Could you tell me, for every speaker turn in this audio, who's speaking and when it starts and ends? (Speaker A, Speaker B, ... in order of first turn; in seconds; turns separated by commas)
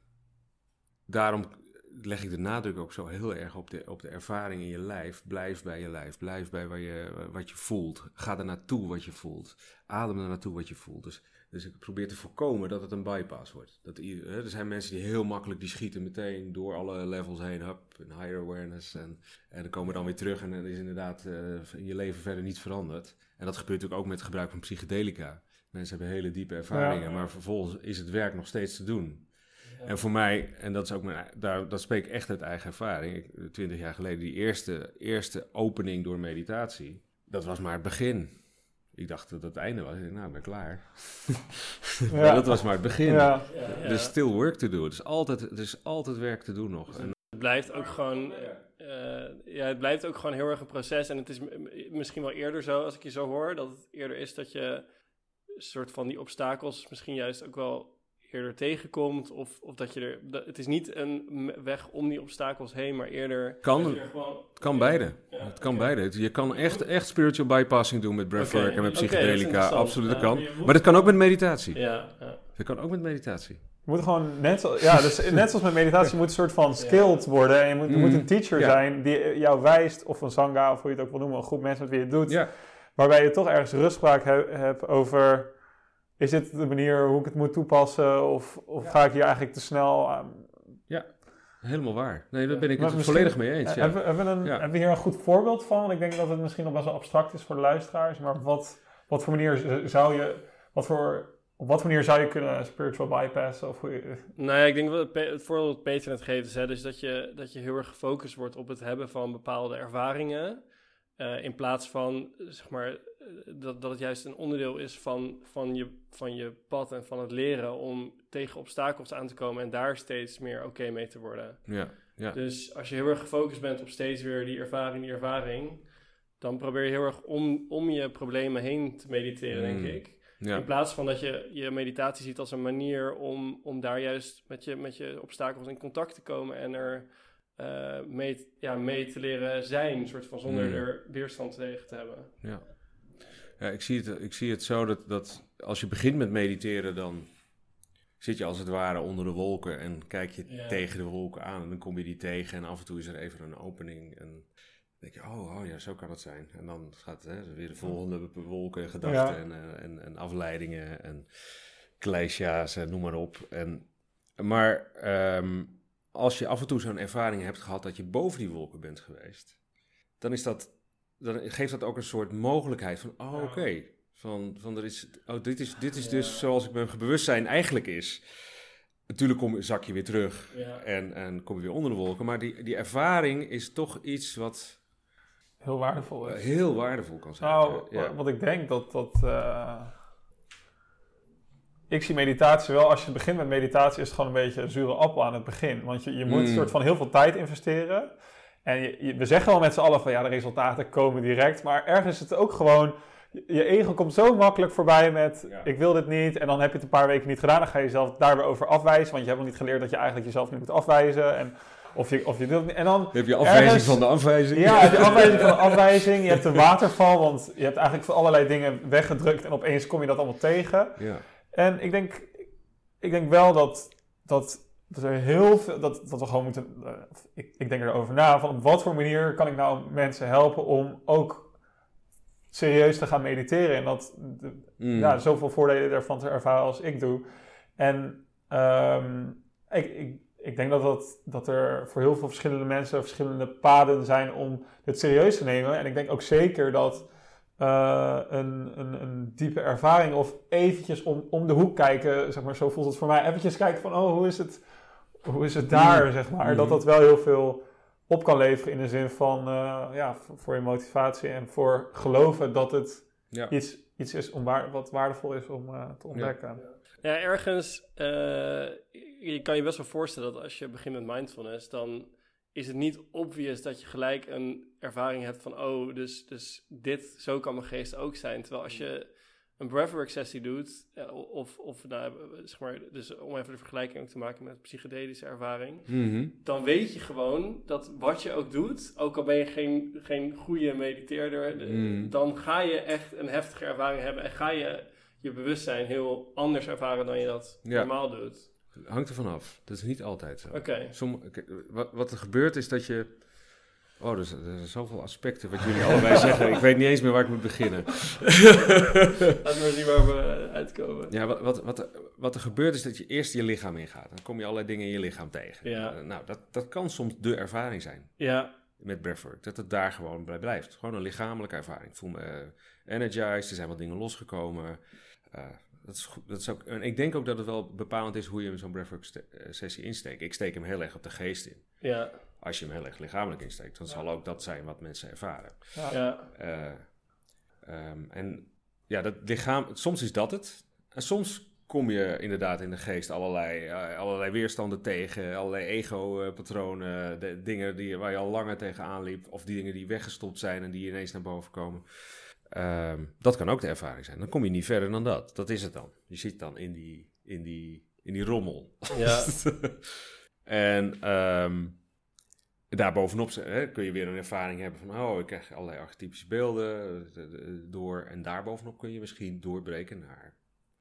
Speaker A: 1.1-47.2, Speaker B: 26.7-27.0, Speaker C: 29.6-30.0, Speaker B: 42.1-43.5, Speaker C: 43.5-44.1, Speaker C: 47.0-66.8, Speaker A: 48.3-48.6, Speaker A: 63.6-73.8, Speaker C: 68.4-72.4, Speaker B: 73.8-90.8, Speaker C: 76.8-77.2, Speaker A: 77.8-78.8, Speaker A: 82.3-82.5, Speaker A: 90.9-94.7, Speaker B: 92.8-104.3, Speaker C: 104.4-142.6, Speaker A: 121.7-122.4, Speaker A: 129.5-130.7, Speaker A: 140.4-140.9, Speaker A: 142.4-169.6, Speaker C: 150.4-150.9, Speaker B: 159.0-159.4, Speaker A: 170.2-184.9, Speaker B: 173.3-173.7, Speaker C: 176.0-176.5, Speaker C: 180.5-180.8, Speaker B: 185.6-190.0, Speaker A: 186.0-188.2, Speaker B: 191.9-231.6, Speaker A: 196.2-196.7, Speaker A: 205.4-205.7, Speaker A: 213.1-216.2, Speaker A: 221.0-221.3, Speaker B: 232.5-266.6, Speaker A: 234.8-235.2, Speaker A: 255.7-256.8, Speaker A: 263.3-263.6, Speaker A: 266.1-266.4, Speaker C: 266.5-298.5, Speaker A: 285.9-286.3, Speaker A: 291.6-292.1, Speaker A: 297.6-309.1, Speaker C: 300.5-300.9, Speaker C: 309.4-311.2, Speaker A: 311.1-361.9, Speaker C: 315.6-316.0, Speaker C: 318.2-318.6, Speaker C: 331.8-332.2, Speaker C: 335.9-336.3, Speaker C: 358.9-359.4, Speaker A: 362.7-370.5